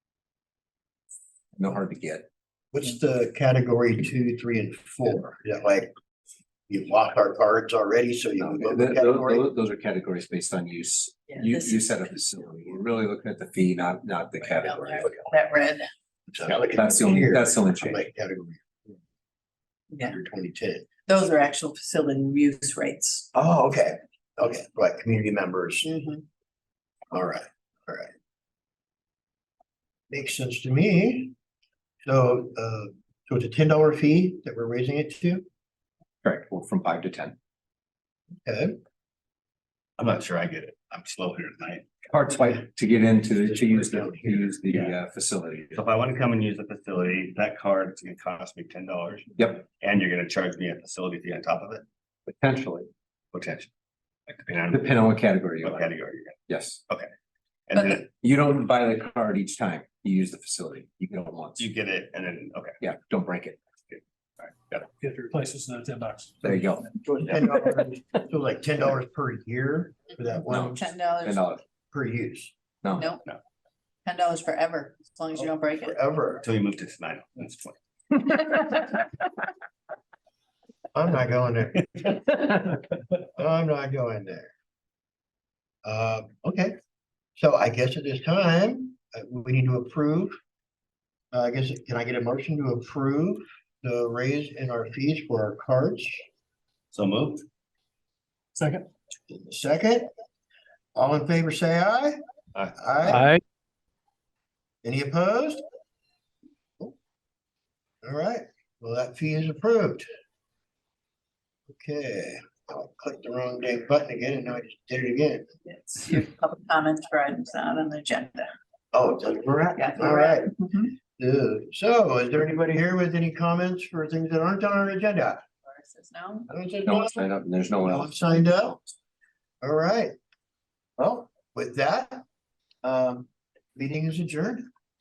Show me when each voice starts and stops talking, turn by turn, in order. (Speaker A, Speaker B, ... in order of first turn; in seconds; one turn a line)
Speaker A: 1.6-2.3
Speaker B: 2.7-5.9
Speaker B: 6.7-9.4
Speaker A: 8.4-15.3
Speaker C: 11.3-12.2
Speaker C: 14.5-15.9
Speaker B: 16.3-18.6
Speaker A: 16.4-18.0
Speaker C: 19.9-20.2
Speaker B: 20.0-20.9
Speaker C: 21.1-23.3
Speaker B: 23.3-25.9
Speaker C: 25.8-26.2
Speaker B: 27.1-28.1
Speaker B: 30.1-31.3
Speaker B: 32.0-35.5
Speaker A: 36.2-37.4
Speaker B: 38.5-38.8
Speaker D: 40.0-41.9
Speaker A: 42.1-45.8
Speaker B: 43.4-44.6
Speaker D: 45.7-51.9
Speaker A: 49.4-49.6
Speaker A: 52.3-52.9
Speaker D: 53.3-53.7
Speaker D: 54.3-54.9
Speaker A: 54.7-55.9
Speaker D: 55.6-56.4
Speaker A: 56.5-56.8
Speaker D: 57.7-58.1
Speaker C: 57.8-58.0
Speaker A: 58.2-61.7
Speaker D: 61.6-62.8
Speaker A: 62.8-63.6
Speaker D: 63.9-64.9
Speaker E: 65.0-66.9
Speaker A: 66.4-67.0
Speaker B: 67.0-70.9
Speaker A: 70.5-71.6
Speaker C: 70.8-71.5
Speaker B: 71.9-72.5
Speaker A: 72.8-73.1
Speaker C: 72.9-73.3
Speaker C: 74.1-76.0
Speaker B: 75.3-76.5
Speaker D: 76.4-77.8
Speaker B: 80.9-82.5
Speaker B: 83.3-84.5
Speaker B: 85.8-86.7
Speaker B: 87.4-90.4
Speaker B: 91.3-96.3
Speaker D: 96.9-97.5
Speaker E: 98.6-98.9
Speaker B: 99.3-100.1
Speaker B: 101.0-102.2
Speaker B: 102.8-103.3
Speaker E: 103.1-103.4
Speaker B: 104.8-105.6
Speaker B: 108.0-110.1
Speaker B: 111.7-115.5
Speaker C: 115.7-118.5
Speaker B: 118.9-120.5
Speaker C: 119.8-120.9
Speaker B: 121.2-125.4
Speaker C: 125.7-126.5
Speaker B: 126.5-127.3
Speaker A: 126.8-128.2
Speaker B: 127.8-128.8
Speaker B: 129.6-130.2
Speaker B: 131.0-132.2
Speaker B: 132.8-134.7